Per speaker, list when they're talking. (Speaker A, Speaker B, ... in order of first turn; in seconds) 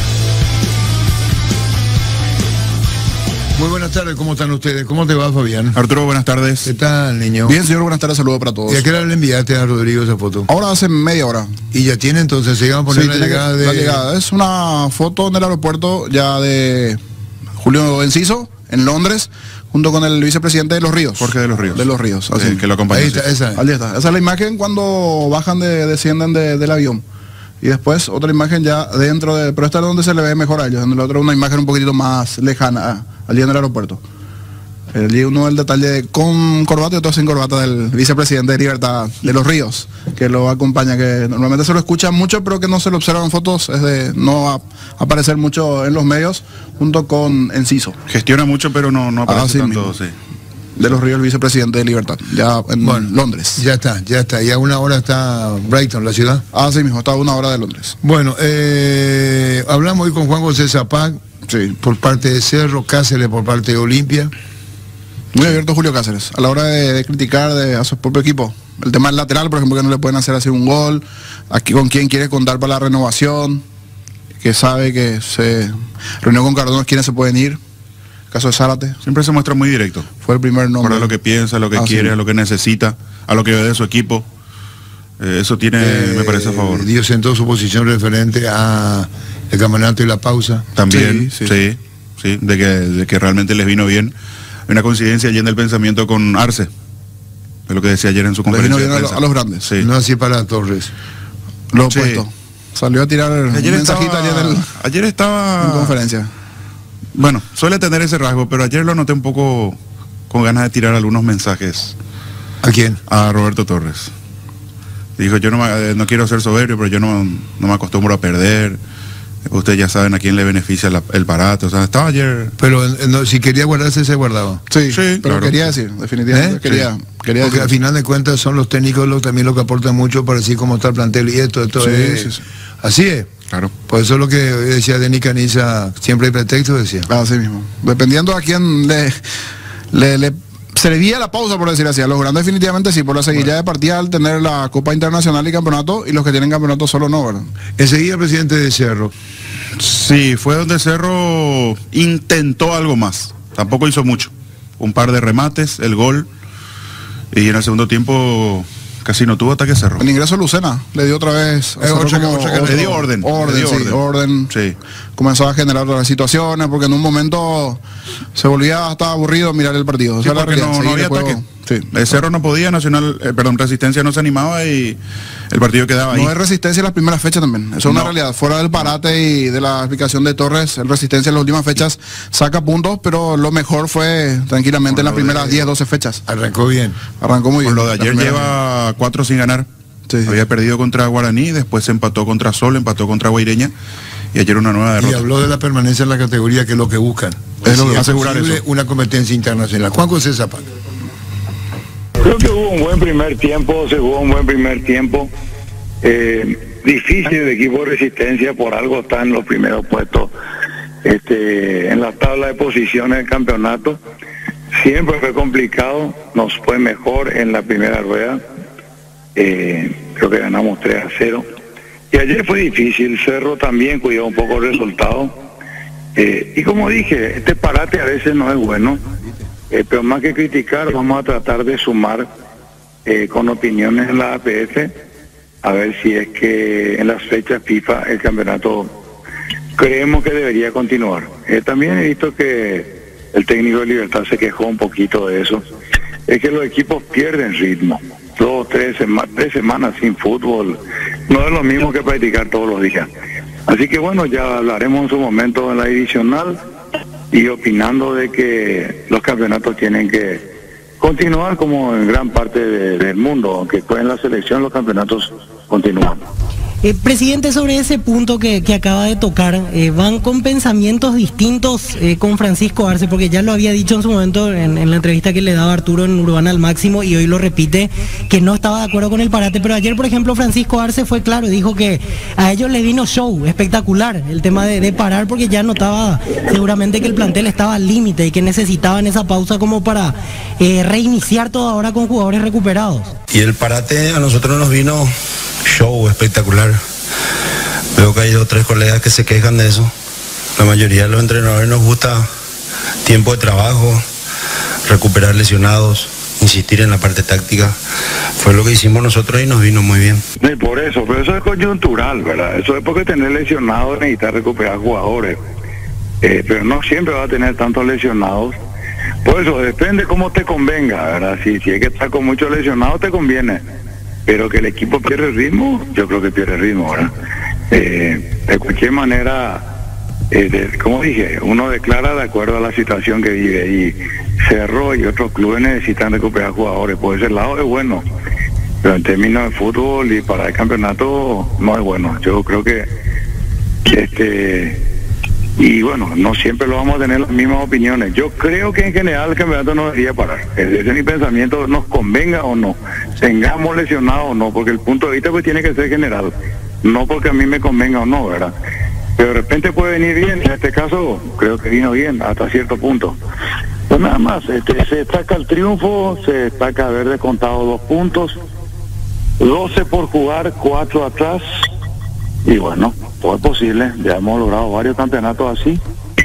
Speaker A: 3.6-5.8, 6.6-7.6, 8.7-10.5, 11.7-14.1, 22.9-23.6, 52.8-56.4, 58.0-61.2, 61.8-64.3, 85.8-90.7, 99.8-100.9, 112.6-113.0, 122.6-124.6, 126.3-126.8, 127.4-133.3, 133.9-137.1, 147.8-149.1, 161.8-163.1, 186.3-187.0, 195.0-200.7
Speaker B: 5.7-6.7, 21.2-23.3, 48.1-50.1, 79.0-80.1, 80.8-84.2, 85.2-86.9, 90.8-94.1, 94.7-96.7, 97.7-99.9, 101.9-102.2, 103.5-106.0, 107.2-109.8, 110.3-111.9, 113.1-114.1, 115.2-118.8, 119.5-122.5, 124.9-125.7, 149.8-156.3, 157.3-160.1, 162.6-164.0, 164.5-164.8, 170.2-175.0, 175.5-176.3, 177.8-178.1, 184.9-185.5, 187.7-189.7, 190.3-193.7, 194.3-195.3, 197.6-198.6
Speaker C: 7.5-8.9, 10.5-11.6, 12.9-17.0, 17.6-22.7, 23.6-27.0, 27.6-34.0, 34.9-48.0, 49.3-50.0, 50.8-53.6, 56.5-58.0, 61.5-61.8, 65.3-73.6, 74.4-77.6, 78.3-79.0, 80.2-81.1, 81.8-82.2, 90.9-91.6, 98.5-99.7, 101.7-104.7, 105.6-106.3, 124.7-127.7, 131.8-132.4, 137.1-139.2, 139.9-147.5, 160.0-164.5, 165.2-167.8, 168.3-171.9, 176.1-186.2, 187.2-188.6, 190.1-190.4, 197.7-198.0
Speaker D: 202.2-205.3, 206.0-210.3, 211.0-214.0, 214.8-218.4, 219.4-221.5, 222.1-225.3, 226.2-229.0, 229.7-232.3, 233.1-234.9, 235.6-239.0, 239.8-245.6, 246.3-253.1, 253.7-256.6, 257.3-260.5, 261.0-266.2, 310.4-315.4, 316.2-318.6, 319.2-323.6, 324.3-327.1, 327.7-329.7, 330.3-338.1, 338.8-342.9, 343.9-344.8, 345.6-358.5, 359.2-363.2, 363.9-368.4, 369.4-371.4, 372.4-375.8
Speaker E: 266.8-293.1
Speaker F: 293.3-295.1, 295.6-296.8, 298.0-299.9, 300.6-302.3, 303.0-304.1, 304.9-307.8, 308.3-310.2